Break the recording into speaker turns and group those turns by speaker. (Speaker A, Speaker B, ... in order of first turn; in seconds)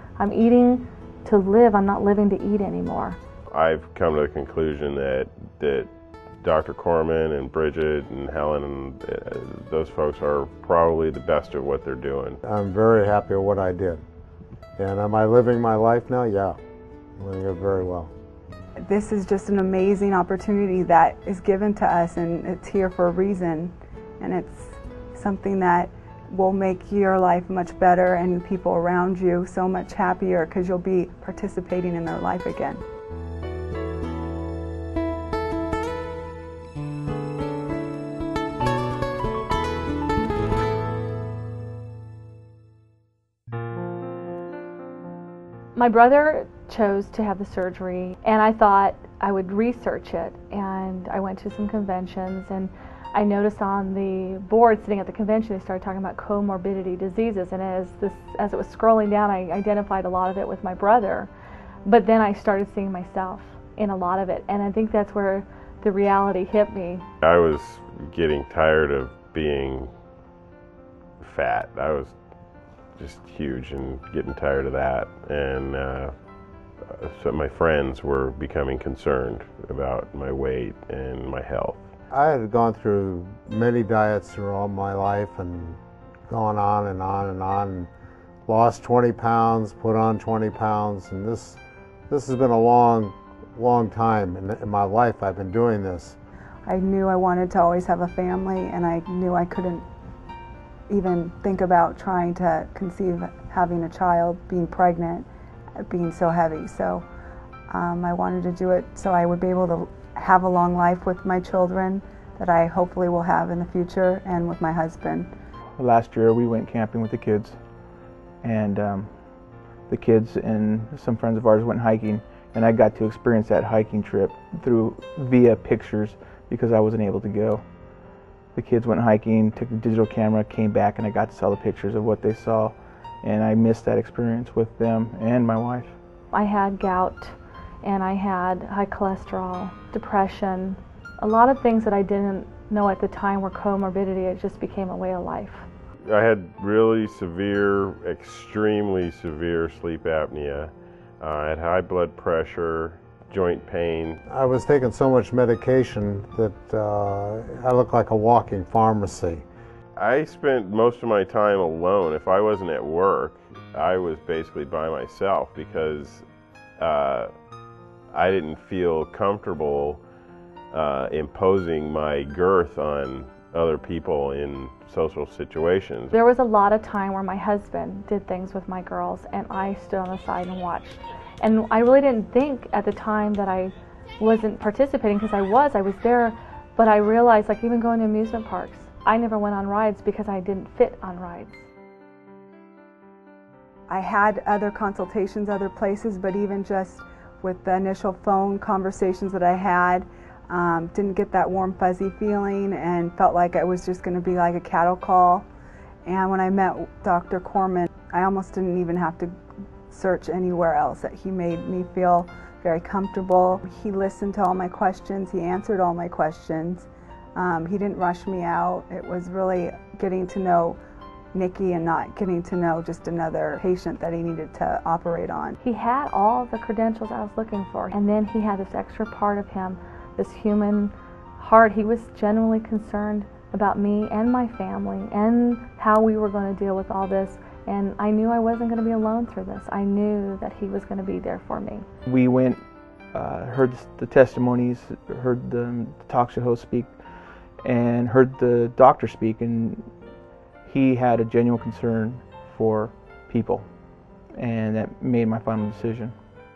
Speaker A: 0.2-3.2, 45.8-61.3, 61.9-67.0, 136.3-145.7, 176.1-191.7, 225.6-241.8
Speaker B: 3.5-5.9, 6.4-12.4, 67.2-69.9, 71.2-72.2, 73.0-76.1, 76.9-81.8, 146.1-154.2, 160.0-166.2, 166.8-167.3, 168.1-170.0, 170.7-176.1
Speaker C: 12.4-14.0, 14.8-16.6, 17.2-18.1, 82.1-87.9, 88.5-96.2, 154.3-159.4
Speaker D: 18.8-32.8, 96.7-99.8, 100.9-105.3, 105.8-107.0, 107.7-115.3, 193.9-205.5, 206.1-209.3, 209.9-220.8, 221.3-225.6
Speaker E: 115.8-117.6, 118.4-119.3, 119.9-127.6, 128.6-136.0, 242.1-249.9, 250.6-253.7, 254.3-256.1